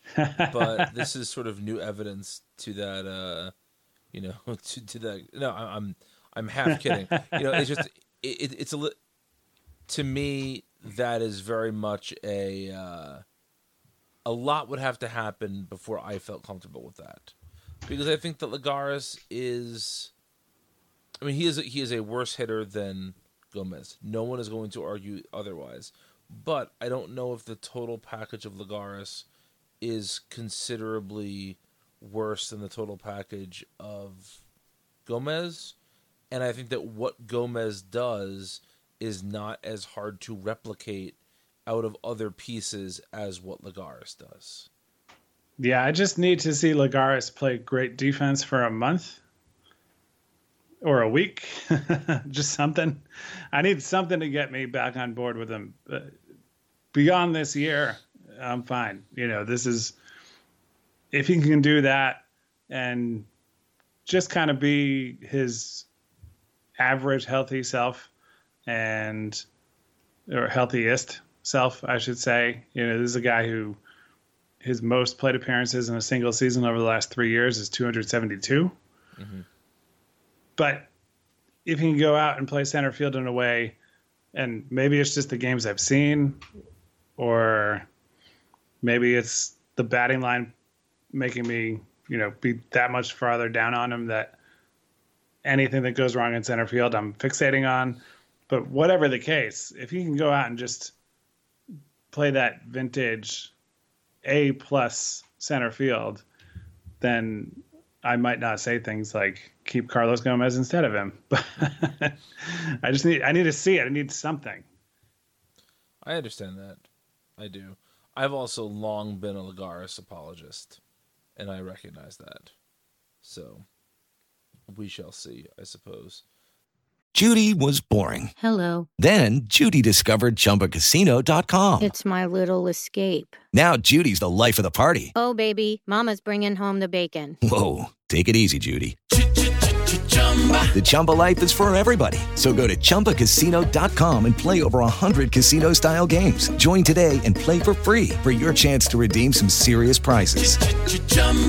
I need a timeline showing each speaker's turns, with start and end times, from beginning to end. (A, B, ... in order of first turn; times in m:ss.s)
0:00.2-0:00.9 A
0:00.5-0:03.5 B
0:04.1-0:09.0 B
0:07.3-0:07.6 A
0:09.9-0:13.2 B
0:14.2-0:17.3 B
0:17.8-0:20.1 B
0:21.2-0:29.2 B
0:29.8-0:34.4 B
0:35.0-0:35.8 B
0:36.3-0:44.7 B
0:45.6-0:49.2 A
0:50.8-0:56.1 A
0:56.9-0:59.9 A
1:01.1-1:03.3 A
1:04.0-1:05.9 A
1:06.8-1:08.1 A
1:08.7-1:09.4 A
1:10.3-1:13.8 A
1:14.6-1:18.7 A
1:19.2-1:19.4 B
1:20.6-1:20.9 A
1:21.6-1:23.8 A
1:24.3-1:26.4 A
1:27.2-1:27.8 A
1:28.8-1:30.5 A
1:31.1-1:34.4 A
1:35.4-1:40.9 A
1:42.1-1:43.5 A
1:44.2-1:46.2 A
1:47.0-1:54.7 A
1:56.0-1:56.8 B
1:57.4-2:00.8 B
2:01.4-2:02.5 B
2:03.2-2:03.6 B
2:04.7-2:06.2 B
2:07.1-2:08.3 C
2:08.4-2:08.9 D
2:09.0-2:11.9 C
2:11.8-2:13.4 D
2:13.5-2:15.1 C
2:15.1-2:17.4 D
2:17.4-2:19.0 C
2:20.7-2:30.8 C